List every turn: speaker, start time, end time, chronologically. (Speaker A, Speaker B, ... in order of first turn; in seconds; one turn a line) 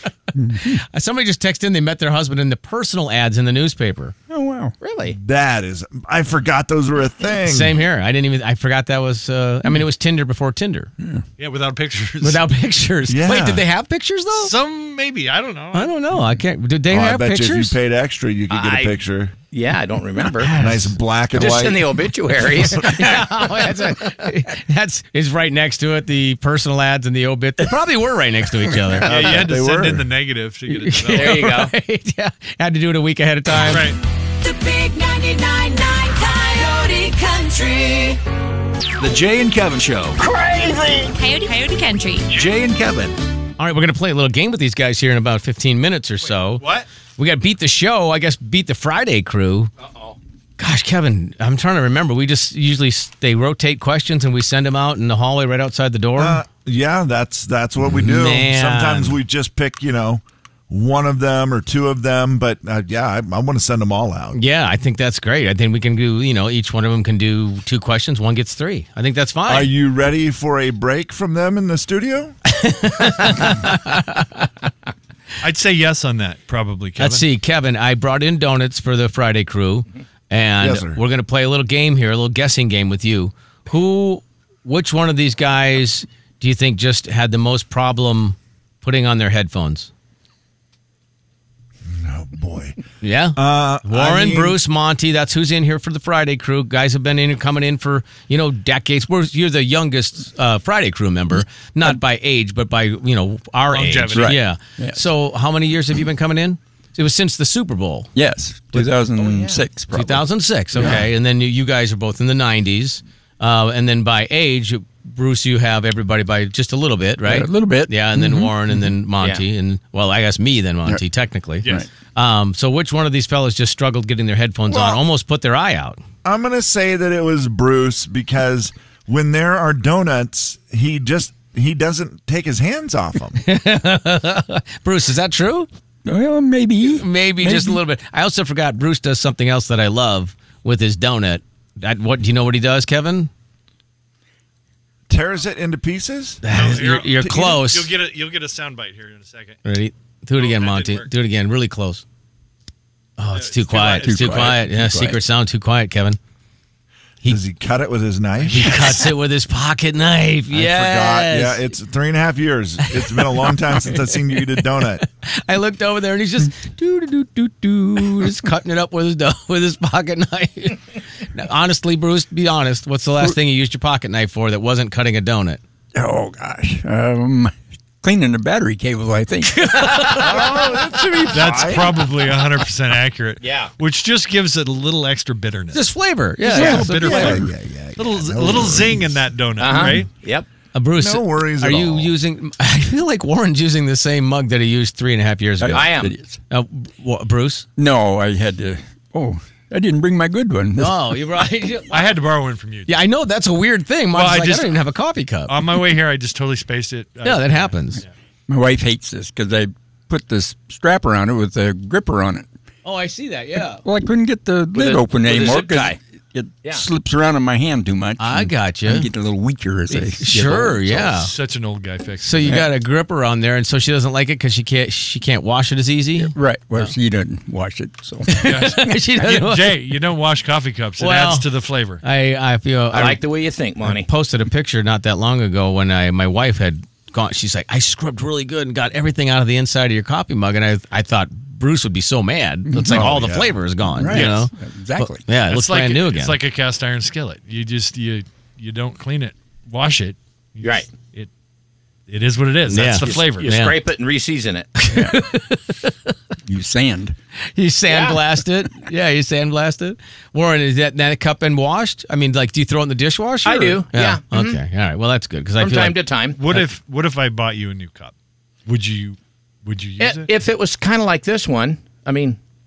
Speaker A: 0.3-0.8
Speaker B: 0.6-4.1
Speaker A: 4.3-4.7
Speaker C: 4.8-5.2
Speaker D: 5.1-7.8
Speaker B: 7.5-10.9
Speaker E: 11.4-12.4
Speaker B: 12.2-14.5
Speaker D: 13.1-13.7
Speaker E: 14.3-16.0
Speaker B: 15.7-17.8
Speaker D: 16.9-19.4
Speaker C: 18.5-19.0
Speaker C: 19.5-20.5
Speaker B: 20.4-20.9
Speaker D: 20.6-22.0
Speaker C: 21.3-23.9
Speaker B: 22.7-29.2
Speaker E: 29.0-31.5
Speaker D: 29.1-30.1
Speaker B: 30.7-33.9
Speaker C: 31.1-31.7
Speaker E: 33.6-34.0
Speaker F: 34.4-38.2
Speaker G: 39.0-40.3
Speaker F: 41.1-42.3
Speaker G: 42.3-43.2
Speaker B: 43.6-46.6
Speaker E: 46.2-46.9
Speaker B: 47.2-49.7
Speaker C: 49.8-50.2
Speaker B: 50.6-56.4
Speaker D: 56.2-64.4
Speaker B: 57.9-59.2
Speaker B: 64.3-69.7
Speaker D: 69.5-72.3
Speaker B: 72.5-74.5
Speaker E: 75.4-77.3
Speaker B: 77.0-89.9
Speaker D: 80.6-81.0
Speaker D: 91.9-92.8
Speaker B: 93.0-108.1
Speaker D: 93.3-94.6
Speaker E: 103.7-104.4
Speaker A: 104.1-105.0
Speaker A: 108.2-111.1
Speaker C: 109.2-109.6
Speaker B: 109.9-126.0
Speaker A: 117.2-118.9
Speaker A: 124.7-125.0
Speaker D: 126.2-133.4
Speaker B: 133.4-135.7
Speaker A: 136.1-137.8
Speaker B: 136.8-143.3
Speaker D: 145.1-146.6
Speaker B: 146.4-147.9
Speaker E: 146.5-149.6
Speaker D: 147.2-147.6
Speaker B: 149.7-152.0
Speaker E: 150.4-151.1
Speaker B: 153.2-156.2
Speaker E: 153.3-154.6
Speaker A: 153.9-155.2
Speaker D: 157.3-159.1
Speaker E: 158.4-158.8
Speaker B: 158.5-161.6
Speaker D: 160.5-165.0
Speaker B: 162.9-170.8
Speaker B: 171.3-175.6
Speaker A: 175.9-179.9
Speaker B: 179.5-180.5
Speaker D: 180.1-182.1
Speaker E: 181.3-185.9
Speaker C: 183.4-183.7
Speaker B: 185.7-187.4
Speaker E: 186.4-187.4
Speaker A: 186.5-187.4
Speaker D: 186.9-189.2
Speaker E: 188.0-190.1
Speaker C: 189.6-190.5
Speaker B: 190.7-195.9
Speaker D: 191.0-192.1
Speaker A: 195.6-196.4
Speaker C: 195.7-196.1
Speaker B: 196.5-197.7
Speaker A: 197.8-201.1
Speaker B: 200.8-202.1
Speaker E: 201.9-203.0
Speaker B: 202.9-205.6
Speaker E: 204.1-204.9
Speaker E: 205.5-208.1
Speaker B: 207.2-208.0
Speaker A: 208.5-212.5
Speaker B: 212.8-213.8
Speaker A: 213.8-220.9
Speaker C: 214.7-216.0
Speaker B: 218.2-219.1
Speaker B: 219.9-221.3
Speaker E: 220.9-222.6
Speaker B: 222.2-226.9
Speaker A: 226.2-229.0
Speaker B: 228.3-229.8
Speaker E: 228.4-232.0
Speaker B: 231.0-231.5
Speaker B: 232.0-233.2
Speaker C: 232.9-234.1
Speaker B: 233.9-246.4
Speaker A: 242.7-243.1
Speaker D: 242.8-243.6
Speaker A: 243.9-245.3
Speaker E: 244.1-244.4
Speaker E: 245.4-251.3
Speaker C: 250.6-250.9
Speaker E: 252.1-253.6
Speaker B: 252.7-253.8
Speaker C: 253.0-254.7
Speaker B: 254.8-256.1
Speaker A: 254.9-255.2
Speaker A: 256.5-257.1
Speaker B: 257.6-266.0
Speaker C: 257.9-258.2
Speaker C: 263.4-264.6
Speaker C: 265.6-266.4
Speaker E: 266.3-268.1
Speaker E: 268.7-270.3
Speaker C: 270.0-272.4